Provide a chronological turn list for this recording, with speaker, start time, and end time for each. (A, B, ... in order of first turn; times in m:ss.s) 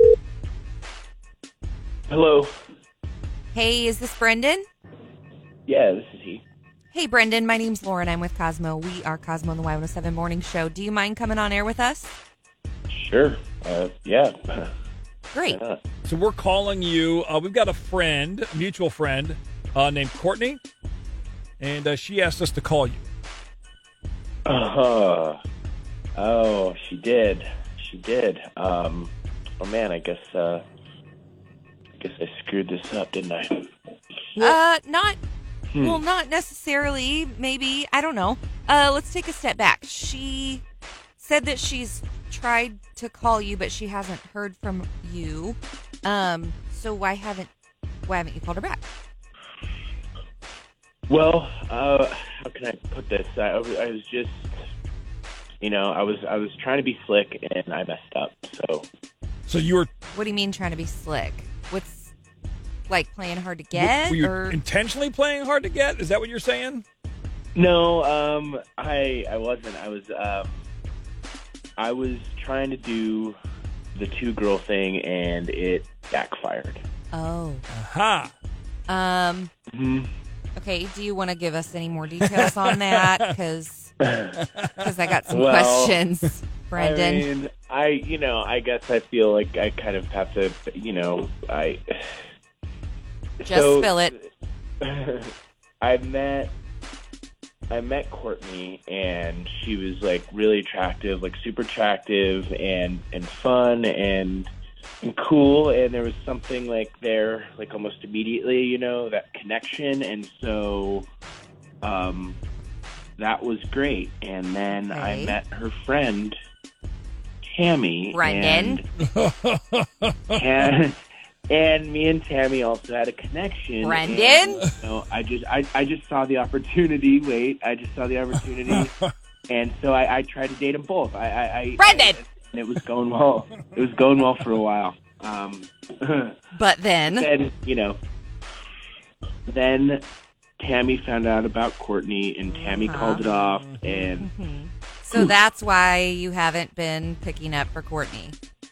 0:02.1-0:02.5 A
0:03.5-0:04.6 B
0:05.7-0:06.4 A
0:06.9-0:12.1 B
0:12.9-0:14.7 A
0:15.3-0:15.6 B
0:15.5-0:15.8 A
0:16.0-0:20.6 C
0:21.6-0:23.0 C
0:24.4-0:25.4 A
0:26.2-0:30.6 A
0:32.0-0:33.7 A
0:34.4-0:35.2 B
0:35.7-0:36.0 A
0:35.8-0:40.6 B
0:41.2-0:47.5 B
0:48.1-0:48.8 B
0:51.1-0:54.5 A
0:55.6-0:58.9 A
0:59.5-0:59.9 C
1:00.1-1:02.1 B
1:02.9-1:04.6 B
1:03.7-1:06.8 C
1:07.5-1:10.6 A
1:11.8-1:13.4 A
1:13.9-1:16.8 A
1:17.1-1:17.7 B
1:17.7-1:18.3 C
1:18.9-1:19.5 B
1:19.7-1:20.1 A
1:20.6-1:23.9 B
1:22.2-1:23.3 C
1:24.8-1:27.3 B
1:25.3-1:26.0 A
1:26.7-1:32.1 A
1:33.4-1:34.1 A
1:33.4-1:34.1 B
1:34.8-1:36.5 A
1:37.7-1:44.5 A
1:45.0-1:51.1 A
1:51.8-1:52.4 A
1:53.2-1:56.3 A
1:54.7-1:55.4 B
1:57.5-1:58.8 A
1:58.1-1:58.8 B
1:59.0-2:00.4 C
2:00.3-2:01.0 A
2:01.5-2:08.9 A
2:03.8-2:04.7 B
2:08.7-2:09.1 C
2:09.5-2:16.3 A
2:11.8-2:12.2 B
2:16.5-2:17.3 B
2:17.1-2:18.0 A
2:19.5-2:20.0 A
2:20.6-2:24.3 A
2:22.4-2:23.2 B
2:23.2-2:23.8 C
2:23.8-2:28.3 B